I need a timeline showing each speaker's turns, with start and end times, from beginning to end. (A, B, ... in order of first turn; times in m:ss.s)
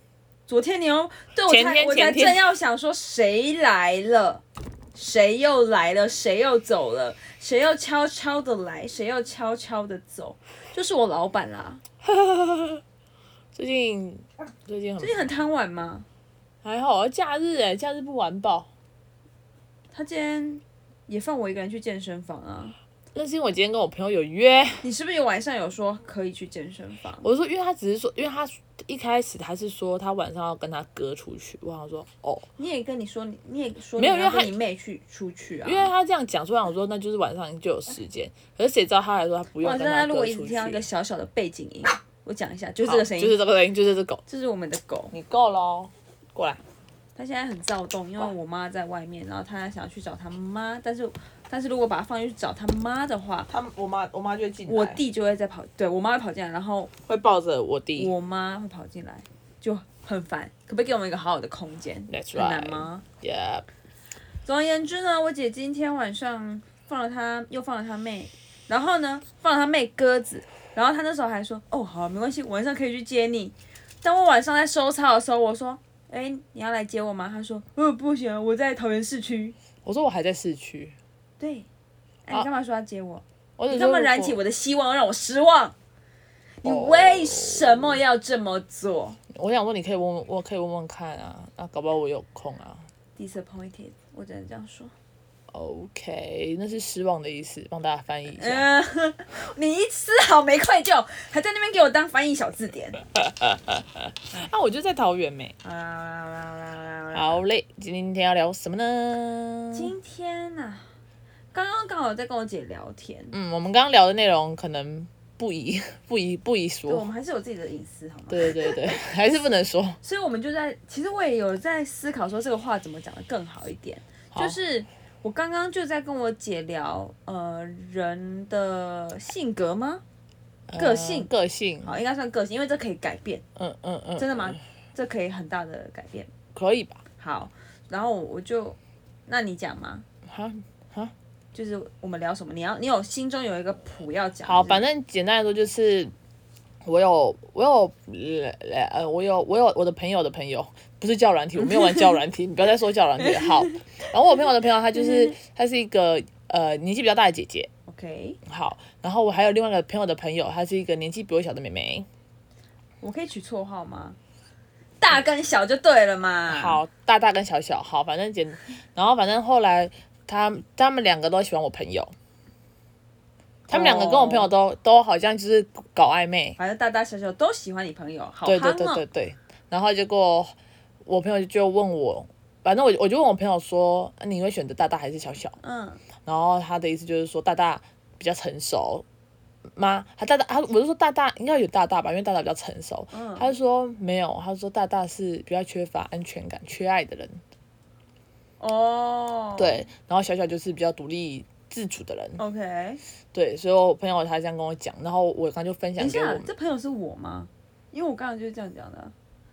0:00.5-0:04.4 A
0:01.5-0:02.4 B
0:04.9-0:11.8 A
0:12.0-0:12.8 B
0:13.5-0:15.3 B
0:15.0-0:16.0 A
0:16.6-0:18.7 B
0:19.9-0:22.8 A
0:23.1-0:24.9 B
0:24.8-0:27.3 A
0:27.2-0:32.5 B
0:32.6-0:35.9 A
0:34.0-0:34.5 B
0:35.6-0:40.8 B
0:39.6-0:43.4 A
0:42.8-0:44.2 B
0:44.3-0:45.1 A
0:45.1-0:46.6 B
0:47.2-0:53.5 A
0:53.5-0:55.0 B
0:54.7-0:56.9 A
0:57.0-0:58.1 B
0:58.0-1:03.0 A
1:02.1-1:03.6 B
1:04.4-1:19.5 A
1:19.8-1:21.0 B
1:21.4-1:21.7 A
1:22.2-1:25.7 A
1:23.6-1:24.4 B
1:26.6-1:29.2 A
1:26.6-1:28.0 B
1:29.3-1:32.8 B
1:33.2-1:34.9 A
1:35.5-1:38.6 B
1:38.3-1:43.0 A
1:43.1-1:45.5 B
1:45.6-1:47.4 A
1:47.1-1:49.9 B
1:49.7-1:50.9 A
1:51.5-1:53.3 A
1:53.3-1:57.0 B
1:56.9-1:59.0 A
1:58.3-2:00.0 B
2:00.0-2:10.0 A
2:10.7-2:11.9 B
2:10.7-2:11.3 A
2:11.8-2:13.4 A
2:13.6-2:14.6 B
2:14.2-2:16.3 A
2:16.5-2:17.0 B
2:17.2-2:20.0 A
2:20.2-2:21.1 B
2:21.5-2:24.8 A
2:24.4-2:26.1 B
2:26.8-2:37.7 B
2:31.6-2:32.2 A
2:33.2-2:33.9 A
2:35.0-2:35.3 A
2:37.9-2:38.4 A
2:38.4-2:42.1 B
2:43.0-2:44.2 A
2:45.0-2:46.8 A
2:46.5-2:52.1 B
2:53.7-2:56.6 B
2:53.7-2:54.5 A
2:56.6-2:59.0 A
2:58.4-3:00.5 B
3:01.0-3:05.6 B
3:05.6-3:06.0 A
3:06.2-3:09.0 B
3:09.8-3:17.4 B
3:13.1-3:13.5 A
3:18.6-3:19.8 A
3:19.6-3:22.4 B
3:22.4-3:23.0 A
3:23.3-3:26.5 B
3:26.0-3:29.1 A